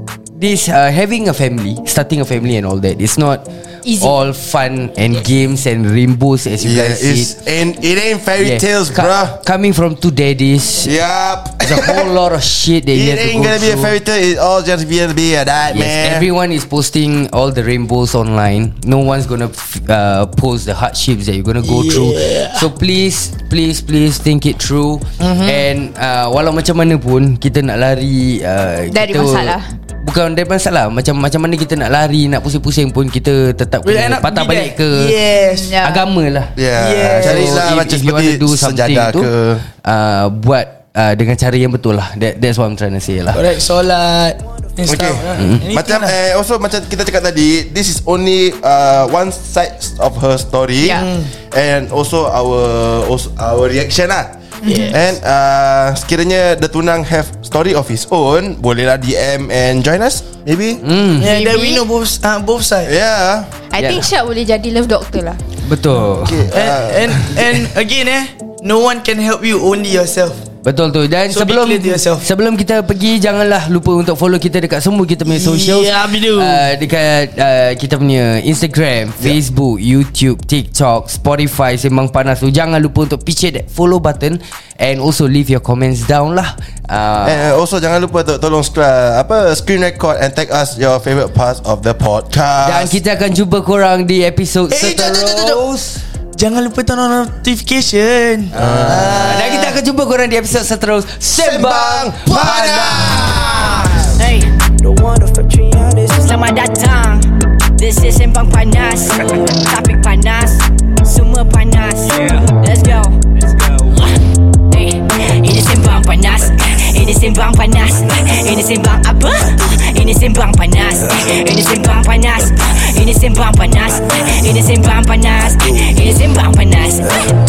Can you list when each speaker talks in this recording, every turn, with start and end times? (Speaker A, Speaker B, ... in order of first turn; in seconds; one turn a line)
Speaker A: 0.3-7.4
Speaker B: 3.9-4.1
Speaker C: 6.6-9.4
Speaker A: 8.4-10.9
Speaker C: 10.8-12.1
Speaker A: 11.6-13.9
Speaker C: 12.9-16.3
Speaker A: 15.7-35.2
Speaker D: 21.6-22.7
Speaker D: 25.2-25.7
Speaker B: 28.9-29.7
Speaker D: 33.8-35.7
Speaker B: 35.3-36.0
Speaker A: 35.8-43.5
Speaker C: 36.6-39.6
Speaker D: 36.7-37.6
Speaker D: 43.3-46.1
Speaker C: 44.8-60.8
Speaker A: 45.4-45.7
Speaker B: 50.8-51.1
Speaker D: 50.9-51.3
Speaker B: 54.6-55.0
Speaker D: 54.7-55.0
Speaker A: 60.8-61.3
Speaker D: 61.2-62.9
Speaker B: 61.2-61.8
Speaker C: 62.8-63.6
Speaker B: 63.7-65.4
Speaker A: 63.8-64.1
Speaker A: 65.6-66.5
Speaker C: 66.2-67.3
Speaker D: 66.5-70.5
Speaker A: 70.6-87.5
Speaker D: 71.3-72.3
Speaker D: 75.3-76.7
Speaker C: 87.2-93.0
Speaker A: 92.6-96.0
Speaker D: 94.7-95.6
Speaker D: 96.3-99.8
Speaker C: 98.5-99.4
Speaker A: 98.5-103.2
Speaker C: 101.3-104.2
Speaker D: 102.3-104.0
Speaker E: 104.2-104.6
Speaker D: 104.9-106.1
Speaker E: 106.1-113.2
Speaker E: 114.7-127.2